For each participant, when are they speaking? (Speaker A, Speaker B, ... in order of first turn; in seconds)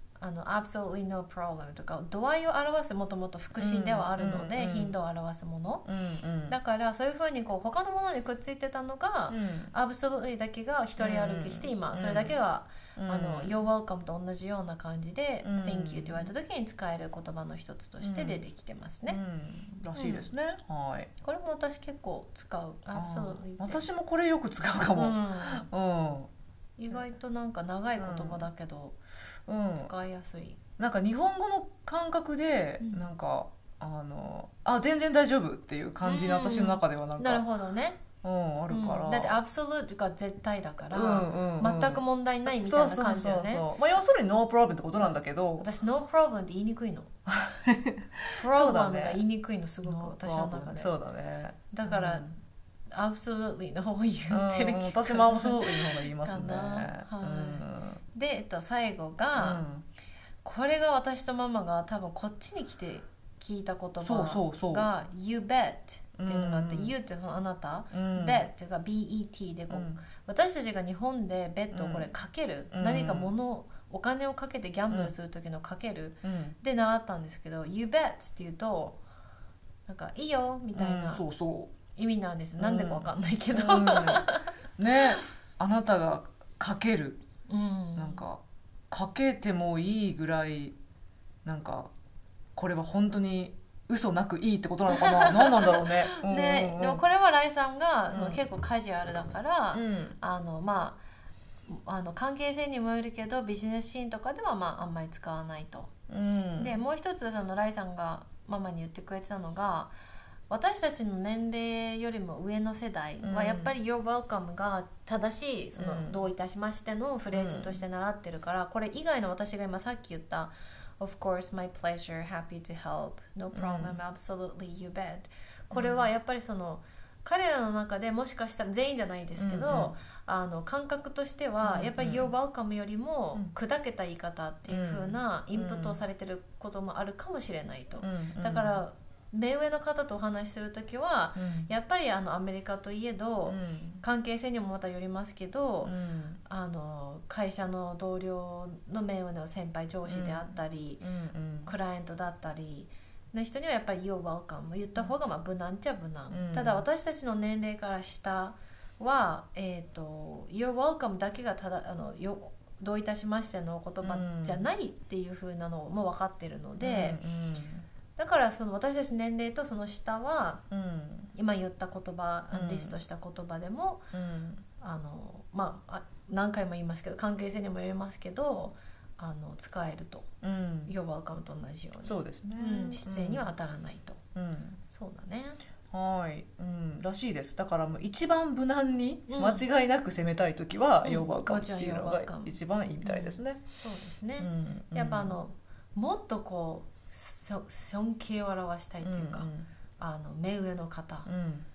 Speaker A: 0.2-5.9, 6.5-19.2, 19.9-20.3, 21.2-23.9, 24.9-25.7, 26.8-29.0, 29.7-30.6, 36.0-38.0, 38.7-43.6, 45.0-47.1, 48.3-50.9, 51.7-52.3, 52.9-59.6, 60.4-79.0, 79.9-81.2, 81.9-84.5, 87.5-88.2, 94.9-101.0, 101.7-105.9, 106.6-109.9, 110.5-145.9, 146.5-151.0, 151.7-167.2, 168.2-170.7, 171.3-174.1, 174.8-180.3, 180.9-184.2, 184.9-185.6, 189.3-189.6, 191.0-199.5, 200.0-201.3
Speaker B: 3.6-5.0, 5.9-6.6, 9.3-9.7, 11.0-12.4, 13.0-13.5, 15.4-16.3, 18.0-18.4, 19.1-21.1, 22.9-26.3, 28.0-28.5, 29.5-29.9, 30.8-37.4, 38.2-39.4, 40.9-45.7, 47.3-49.2, 49.8-52.4, 54.3-58.0, 59.4-59.9, 64.0-64.9, 66.2-66.9, 67.9-68.5, 69.7-70.0, 71.7-72.1, 72.7-73.3, 76.2-76.6, 80.8-81.7, 82.6-87.2, 88.0-90.8, 91.5-91.9, 92.6-97.0, 98.1-98.4, 99.7-100.2, 106.1-106.8, 113.2-113.7, 115.8-116.2, 117.3-117.8, 123.5-124.0, 125.7-126.1, 129.4-129.9, 131.6-132.3, 134.7-136.0, 138.0-138.8, 141.4-141.7, 143.5-144.0, 145.8-146.4, 150.1-151.7, 156.3-156.8, 164.0-164.7, 166.8-167.9, 170.7-171.3, 172.5-172.9, 174.1-174.7, 180.4-180.9, 182.0-183.5, 184.3-184.8, 185.9-193.6, 194.4-195.4, 199.0-199.7, 201.3-201.7